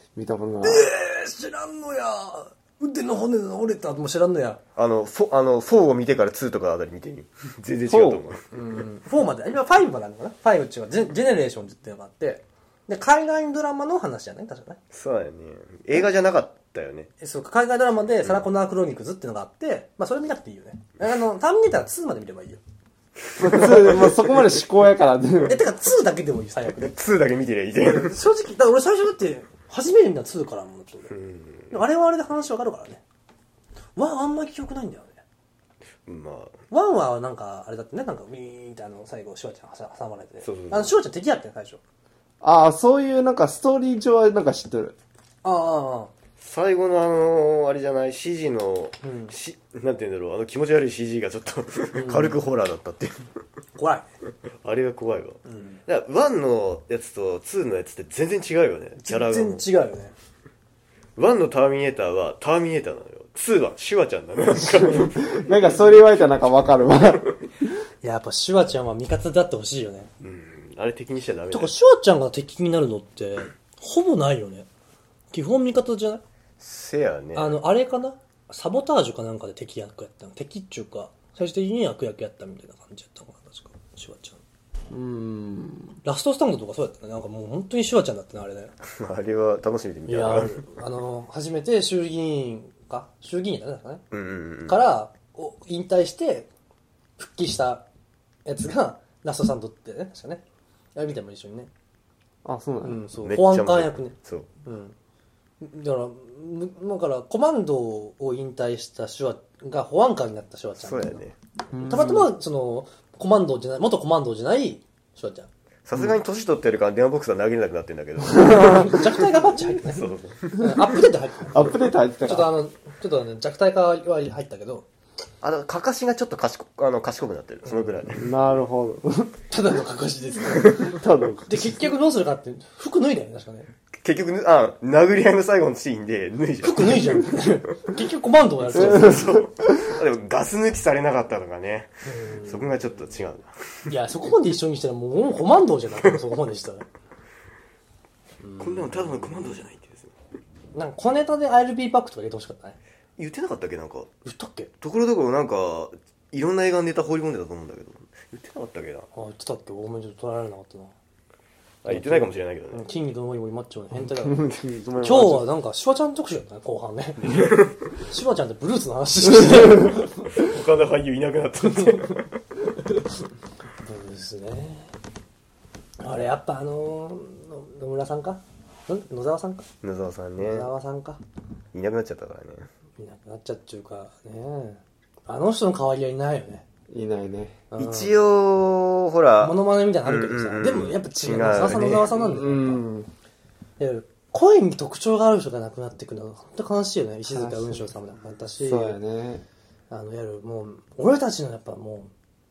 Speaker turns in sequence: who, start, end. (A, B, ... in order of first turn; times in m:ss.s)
0:00.2-0:00.9 A
0:00.6-0:04.6 B
0:04.8-0:08.4 C
0:07.9-0:08.2 A
0:08.5-0:14.8 B
0:14.9-0:17.1 C
0:17.2-0:22.6 B
0:23.4-0:25.6 A
0:25.4-0:26.9 B
0:26.7-0:28.2 C
0:27.8-0:31.1 B
0:31.1-0:31.8 C
0:31.7-0:33.0 B
0:34.0-0:35.2 B
0:36.0-0:36.6 C
0:36.7-0:41.8 B
0:40.4-0:40.9 C
0:42.4-0:44.9 A
0:45.4-0:46.1 B
0:46.4-0:53.2 C
0:49.0-0:49.3 B
0:51.9-0:52.4 B
0:53.8-0:54.0 B
0:54.6-0:59.6 C
0:55.5-0:55.8 B
0:59.0-1:00.1 B
1:01.2-1:05.4 C
1:05.3-1:07.3 A
1:08.0-1:10.1 B
1:10.2-1:11.7 C
1:11.5-1:14.7 B
1:15.3-1:16.2 B
1:16.6-1:17.6 C
1:17.3-1:24.4 B
1:24.9-1:26.0 A
1:26.0-1:28.7 B
1:28.8-1:30.6 C
1:30.1-1:34.0 B
1:34.1-1:34.8 C
1:34.6-1:36.5 B
1:37.2-1:37.8 B
1:38.4-1:40.4 B
1:41.0-1:41.7 B
1:42.4-1:43.0 A
1:42.8-1:44.9 B
1:43.2-1:44.5 C
1:45.6-1:51.2 B
1:50.8-1:51.3 C
1:51.7-1:52.3 A
1:51.8-1:55.5 B
1:55.8-1:58.9 C
1:58.3-1:59.0 A
1:58.5-2:04.8 B
1:59.8-2:00.5 C
2:01.5-2:02.5 A
2:05.4-2:08.2 C
2:07.7-2:07.9 B
2:08.2-2:09.4 A
2:09.5-2:10.9 B
2:10.8-2:11.8 A
2:11.5-2:13.7 B
2:13.9-2:17.3 C
2:16.6-2:19.3 B
2:18.7-2:21.9 C
2:18.7-2:19.9 A
2:22.0-2:22.8 B
2:22.4-2:23.9 C
2:23.9-2:26.8 B
2:28.4-2:29.5 B
2:28.6-2:30.1 C
2:30.7-2:32.8 B
2:33.2-2:34.1 C
2:34.2-2:34.7 B
2:34.8-2:39.1 C
2:39.1-2:40.9 B
2:41.8-2:42.8 C
2:41.9-2:44.4 B
2:44.2-2:45.4 A
2:44.6-2:45.3 C
2:45.0-2:50.2 B
2:47.4-2:47.7 C
2:50.3-2:52.3 C
2:51.7-2:52.2 B
2:53.8-2:54.9 B
2:56.0-2:59.7 B
2:59.8-3:00.7 C
3:00.4-3:01.2 B
3:01.7-3:02.7 C
3:03.0-3:06.6 B
3:06.9-3:07.6 A
3:07.7-3:08.1 B
3:07.8-3:12.1 C
3:09.4-3:12.8 B
3:11.8-3:13.1 A
3:13.8-3:19.0 B
3:17.3-3:17.9 A
3:18.6-3:19.4 A
3:19.9-3:22.1 B